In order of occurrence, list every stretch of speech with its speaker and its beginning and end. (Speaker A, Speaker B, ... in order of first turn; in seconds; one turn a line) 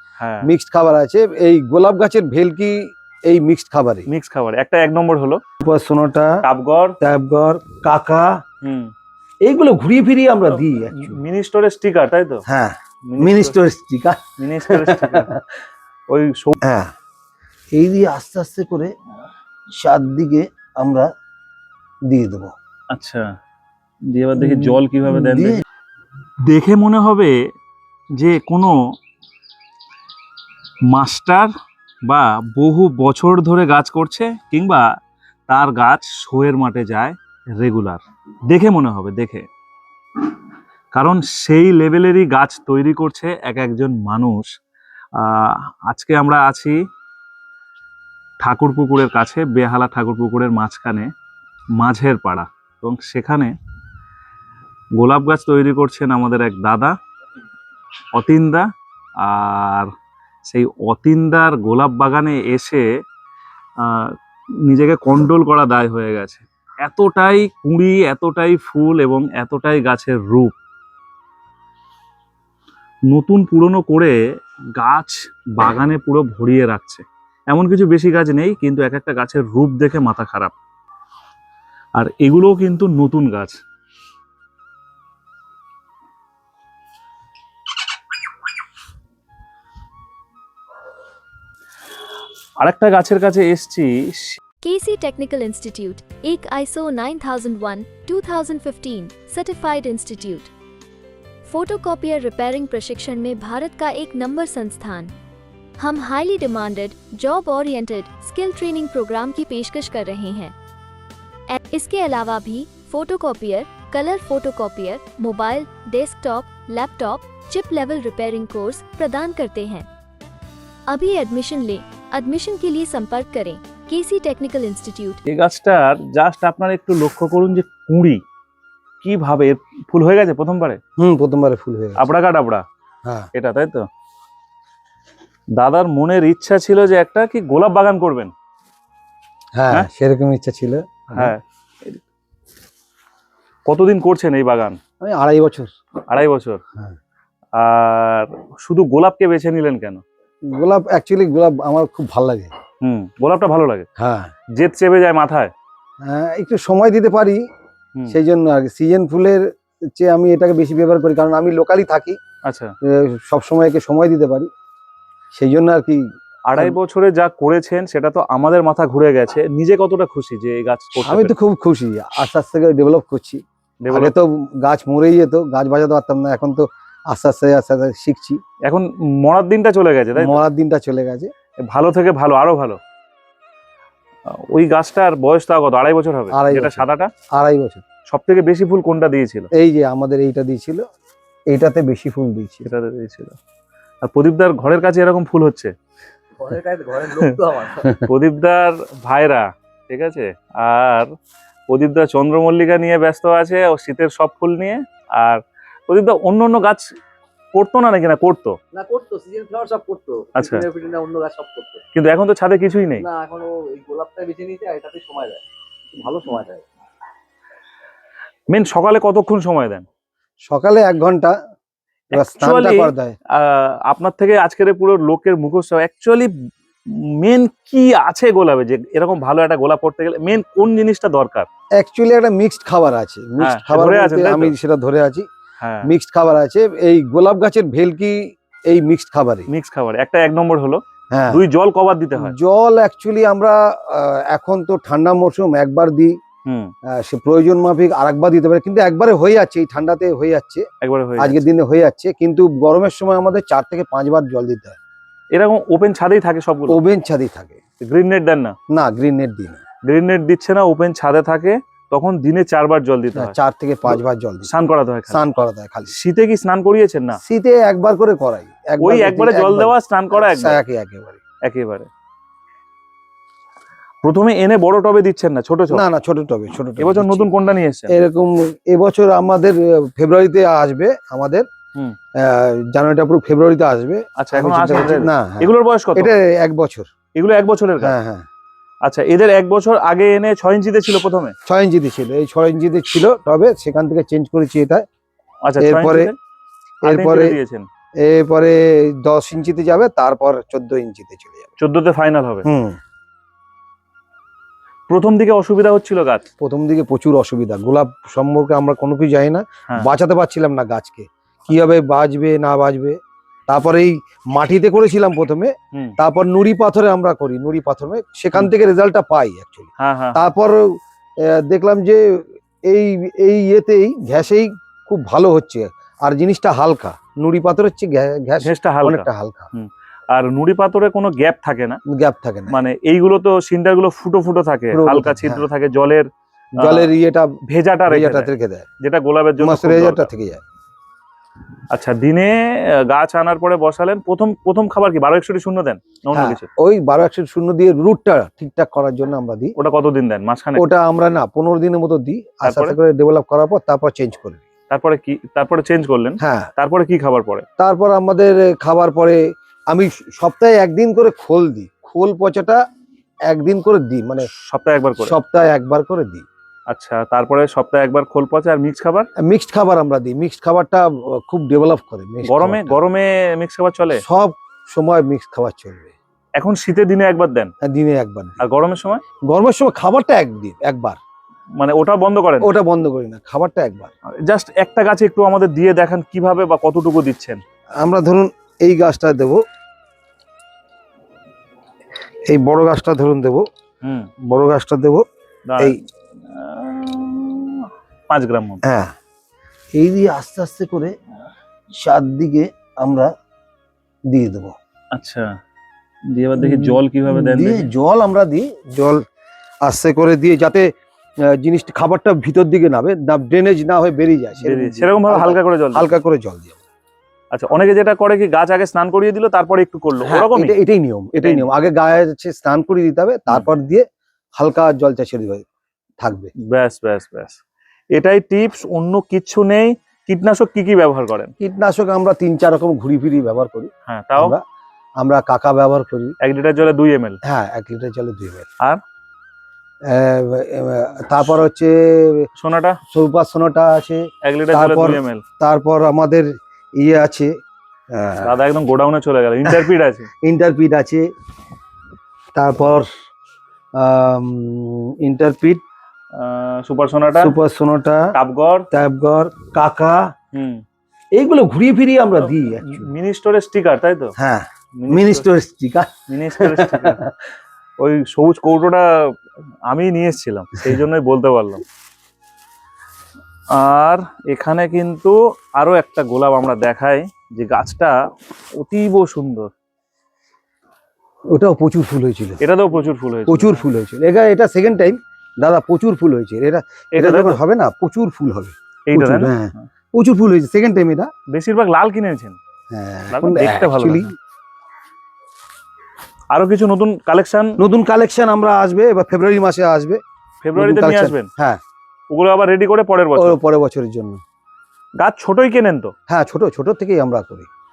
Speaker A: 0.2-0.5
Speaker B: 0.4-4.1
Speaker A: 4.1-5.4
Speaker B: 5.6-6.3
Speaker A: 6.4-7.0
Speaker B: 7.0-8.3
Speaker A: 8.6-8.9
Speaker B: 9.4-11.2
Speaker A: 10.5-12.4
Speaker B: 12.5-15.4
Speaker A: 13.1-13.6
Speaker A: 14.4-15.3
Speaker A: 16.1-16.6
Speaker B: 16.6-16.9
Speaker B: 17.7-18.9
Speaker B: 19.7-21.1
Speaker B: 22.1-22.5
Speaker A: 22.9-23.3
Speaker A: 24.1-25.6
Speaker B: 24.4-25.6
Speaker A: 26.5-27.4
Speaker A: 28.1-28.8
Speaker A: 30.9-31.5
Speaker A: 32.0-34.9
Speaker A: 35.5-39.5
Speaker A: 40.9-44.5
Speaker A: 45.1-46.8
Speaker A: 48.4-51.1
Speaker A: 51.8-53.5
Speaker A: 55.0-57.0
Speaker A: 58.1-58.7
Speaker A: 59.2-59.9
Speaker A: 60.5-62.9
Speaker A: 63.8-70.5
Speaker A: 73.1-74.2
Speaker A: 74.8-80.5
Speaker A: 82.0-83.6
Speaker A: 92.6-94.4
Speaker C: 94.6-100.5
Speaker C: 101.5-105.1
Speaker C: 105.8-110.5
Speaker C: 111.5-119.9
Speaker C: 120.9-125.2
Speaker A: 125.3-128.2
Speaker A: 129.0-130.8
Speaker B: 131.0-132.0
Speaker A: 132.0-132.6
Speaker A: 133.3-133.9
Speaker A: 135.6-138.3
Speaker B: 139.6-141.3
Speaker A: 141.2-142.0
Speaker A: 143.7-144.8
Speaker B: 145.0-145.7
Speaker A: 146.1-146.6
Speaker A: 147.6-150.0
Speaker B: 150.5-152.5
Speaker A: 152.8-153.9
Speaker B: 154.0-154.3
Speaker A: 154.6-155.5
Speaker B: 156.0-157.4
Speaker B: 158.1-162.2
Speaker A: 162.4-162.7
Speaker B: 162.8-164.5
Speaker B: 165.3-166.0
Speaker A: 166.5-171.3
Speaker B: 171.1-178.4
Speaker A: 173.8-174.2
Speaker A: 178.7-180.4
Speaker B: 180.2-181.3
Speaker A: 181.7-182.8
Speaker A: 184.3-187.1
Speaker B: 186.3-187.8
Speaker A: 188.1-189.5
Speaker B: 189.5-190.8
Speaker B: 191.5-192.7
Speaker A: 192.7-193.4
Speaker A: 194.0-195.7
Speaker D: 196.4-197.9
Speaker A: 198.0-201.1
Speaker A: 201.7-206.8
Speaker A: 207.5-208.6
Speaker D: 208.7-211.8
Speaker A: 210.3-210.7
Speaker A: 211.9-213.1
Speaker D: 213.0-215.4
Speaker D: 215.9-216.7
Speaker A: 218.5-219.8
Speaker B: 220.5-221.3
Speaker B: 222.1-223.2
Speaker A: 222.1-226.3
Speaker A: 226.9-231.5
Speaker B: 231.8-235.3
Speaker A: 233.4-234.6
Speaker A: 235.6-235.9
Speaker B: 235.8-239.5
Speaker A: 239.5-242.3
Speaker B: 241.1-241.4
Speaker B: 242.2-246.2
Speaker A: 246.4-246.7
Speaker B: 246.9-250.7
Speaker A: 250.8-251.4
Speaker B: 251.2-254.8
Speaker A: 255.3-256.8
Speaker B: 256.7-257.6
Speaker A: 257.8-258.6
Speaker B: 258.7-259.6
Speaker A: 259.9-263.3
Speaker B: 263.1-264.5
Speaker A: 263.9-265.2
Speaker B: 265.1-265.9
Speaker A: 265.9-267.2
Speaker B: 267.2-271.2
Speaker A: 268.8-270.6
Speaker A: 271.4-271.9
Speaker A: 274.0-275.8
Speaker B: 275.7-277.3
Speaker A: 276.8-278.0
Speaker B: 277.9-281.5
Speaker B: 282.2-286.9
Speaker A: 284.2-286.2
Speaker A: 287.1-287.9
Speaker B: 287.8-288.2
Speaker A: 288.8-291.3
Speaker B: 291.5-294.8
Speaker A: 295.4-296.2
Speaker B: 295.6-296.1
Speaker B: 296.8-297.4
Speaker A: 296.8-297.6
Speaker B: 298.0-301.5
Speaker A: 301.6-302.5
Speaker B: 302.4-302.8
Speaker A: 304.9-306.3
Speaker B: 306.4-329.5
Speaker A: 319.8-320.3
Speaker A: 328.4-331.8
Speaker B: 331.9-332.6
Speaker A: 332.5-336.1
Speaker B: 334.7-335.5
Speaker B: 336.6-337.3
Speaker A: 336.6-336.9
Speaker A: 337.5-338.3
Speaker B: 337.9-338.7
Speaker A: 338.8-340.1
Speaker B: 339.4-340.4
Speaker A: 341.7-346.5
Speaker B: 346.1-349.6
Speaker A: 349.6-350.7
Speaker B: 350.6-354.4
Speaker A: 352.4-352.8
Speaker A: 354.7-357.4
Speaker B: 356.2-356.5
Speaker B: 357.6-362.6
Speaker B: 363.3-364.3
Speaker A: 364.4-365.2
Speaker B: 365.0-366.3
Speaker A: 366.7-369.1
Speaker B: 369.2-372.8
Speaker A: 372.2-374.0
Speaker B: 374.0-375.9
Speaker A: 376.4-377.5
Speaker B: 377.6-378.4
Speaker A: 378.4-379.0
Speaker B: 379.3-381.0
Speaker A: 381.6-382.5
Speaker B: 382.4-383.9
Speaker A: 384.2-387.4
Speaker B: 387.8-389.4
Speaker B: 392.3-393.5
Speaker A: 393.8-394.1
Speaker B: 394.3-395.1
Speaker A: 395.5-395.8
Speaker A: 396.3-398.6
Speaker B: 398.6-398.9
Speaker B: 399.8-400.9
Speaker B: 401.7-403.1
Speaker B: 404.1-404.6
Speaker A: 404.9-405.3
Speaker A: 406.1-407.7
Speaker B: 406.4-409.0
Speaker B: 409.6-410.7
Speaker B: 411.3-416.6
Speaker A: 414.4-416.0
Speaker A: 417.3-420.6
Speaker B: 420.1-423.9
Speaker A: 421.2-421.5
Speaker B: 424.4-425.5
Speaker B: 426.0-426.3
Speaker A: 426.5-427.4
Speaker A: 427.9-431.3
Speaker B: 431.4-434.4
Speaker A: 433.9-434.4
Speaker B: 435.0-436.1
Speaker A: 436.2-437.2
Speaker B: 437.2-438.5
Speaker B: 439.9-442.3
Speaker A: 442.4-442.8
Speaker B: 442.9-447.3
Speaker A: 444.2-445.2
Speaker B: 447.9-448.4
Speaker A: 448.2-450.1
Speaker B: 450.2-451.1
Speaker B: 452.4-452.9
Speaker B: 453.8-455.6
Speaker A: 456.1-457.4
Speaker B: 457.2-458.1
Speaker A: 458.1-458.7
Speaker B: 458.7-460.1
Speaker A: 460.3-460.6
Speaker B: 461.1-462.9
Speaker A: 462.2-464.1
Speaker B: 464.2-467.1
Speaker A: 464.8-465.3
Speaker A: 466.1-467.0
Speaker A: 467.8-469.1
Speaker A: 469.7-471.6
Speaker A: 473.5-477.9
Speaker A: 478.6-479.5
Speaker B: 481.3-482.4
Speaker A: 482.4-483.6
Speaker B: 483.3-491.1
Speaker A: 486.9-487.4
Speaker A: 488.9-489.6
Speaker A: 491.3-492.4
Speaker B: 492.7-494.1
Speaker A: 493.1-494.1
Speaker A: 496.3-497.6
Speaker B: 497.6-500.0
Speaker A: 500.4-501.3
Speaker B: 500.6-501.6
Speaker A: 502.1-503.4
Speaker B: 503.1-504.2
Speaker A: 505.0-505.9
Speaker B: 506.1-507.5